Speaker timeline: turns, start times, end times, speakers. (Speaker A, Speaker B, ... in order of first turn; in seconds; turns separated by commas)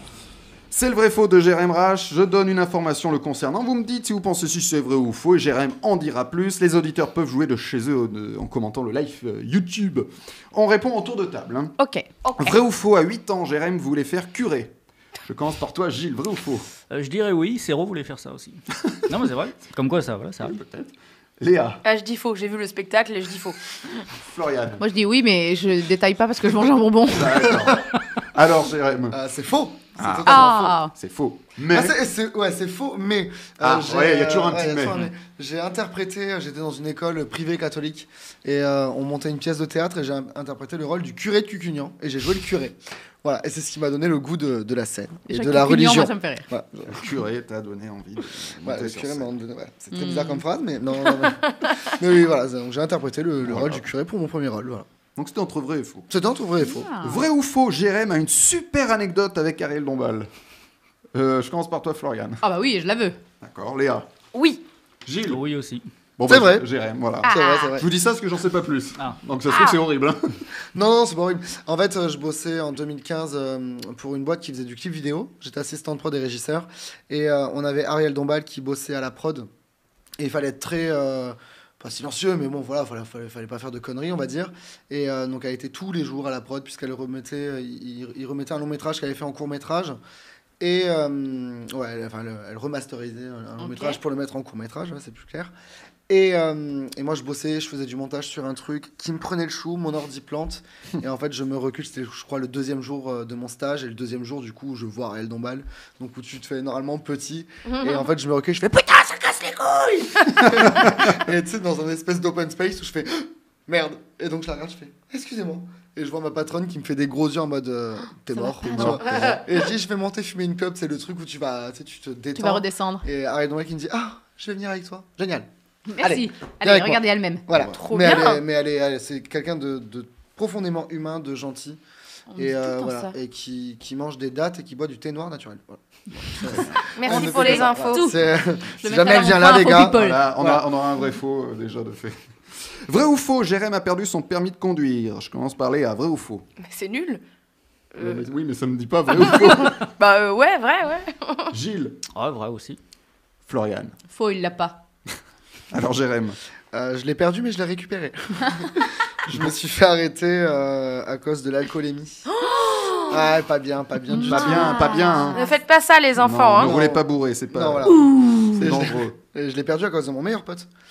Speaker A: 0.7-11.7, Speaker B: 11.8-12.1, Speaker C: 12.2-12.5, Speaker A: 12.4-14.7, Speaker A: 15.2-16.7, Speaker D: 16.9-20.6, Speaker A: 20.4-21.8, Speaker C: 21.8-23.6, Speaker A: 24.2-24.8, Speaker B: 24.8-27.5, Speaker A: 27.1-29.1, Speaker E: 29.1-30.7, Speaker A: 30.0-31.9, Speaker B: 30.2-30.9, Speaker E: 31.7-47.2, Speaker A: 33.6-35.1, Speaker B: 45.3-46.5, Speaker A: 46.9-49.3, Speaker E: 48.6-54.9, Speaker B: 49.9-50.4, Speaker A: 53.4-53.9, Speaker A: 55.1-56.1, Speaker E: 56.1-56.9, Speaker B: 56.6-57.2, Speaker A: 57.0-60.3, Speaker A: 61.1-62.4, Speaker B: 62.4-63.2, Speaker A: 63.4-64.1, Speaker C: 64.3-64.6, Speaker A: 65.0-65.4, Speaker D: 65.2-65.8, Speaker A: 66.2-70.2, Speaker E: 66.2-66.7, Speaker B: 67.2-67.7, Speaker E: 67.2-67.9, Speaker C: 69.5-69.8, Speaker E: 70.7-79.5, Speaker E: 80.2-90.0, Speaker E: 90.6-95.5, Speaker C: 93.6-94.0, Speaker E: 96.1-125.5, Speaker C: 107.7-108.0, Speaker B: 118.3-119.1, Speaker A: 118.6-119.4, Speaker B: 122.4-123.0, Speaker B: 125.9-127.5, Speaker E: 126.0-131.8, Speaker C: 127.6-128.4, Speaker B: 132.3-133.1, Speaker E: 132.3-135.8, Speaker E: 136.3-140.6, Speaker A: 136.4-136.9, Speaker C: 136.9-138.1, Speaker B: 137.0-138.2, Speaker B: 138.8-140.3, Speaker A: 139.9-142.2, Speaker A: 142.8-146.4, Speaker C: 146.6-147.2, Speaker C: 147.9-148.3, Speaker A: 148.0-149.8, Speaker C: 149.2-151.5, Speaker A: 151.5-152.0, Speaker D: 152.1-152.8, Speaker A: 153.4-153.9, Speaker B: 154.1-154.8, Speaker A: 155.7-156.4, Speaker E: 156.7-162.3, Speaker B: 162.4-163.2, Speaker E: 163.1-164.8, Speaker B: 164.1-165.5, Speaker A: 164.2-165.5, Speaker C: 165.3-166.7, Speaker A: 166.2-167.9, Speaker E: 166.6-170.7, Speaker B: 167.9-168.7, Speaker A: 168.5-169.1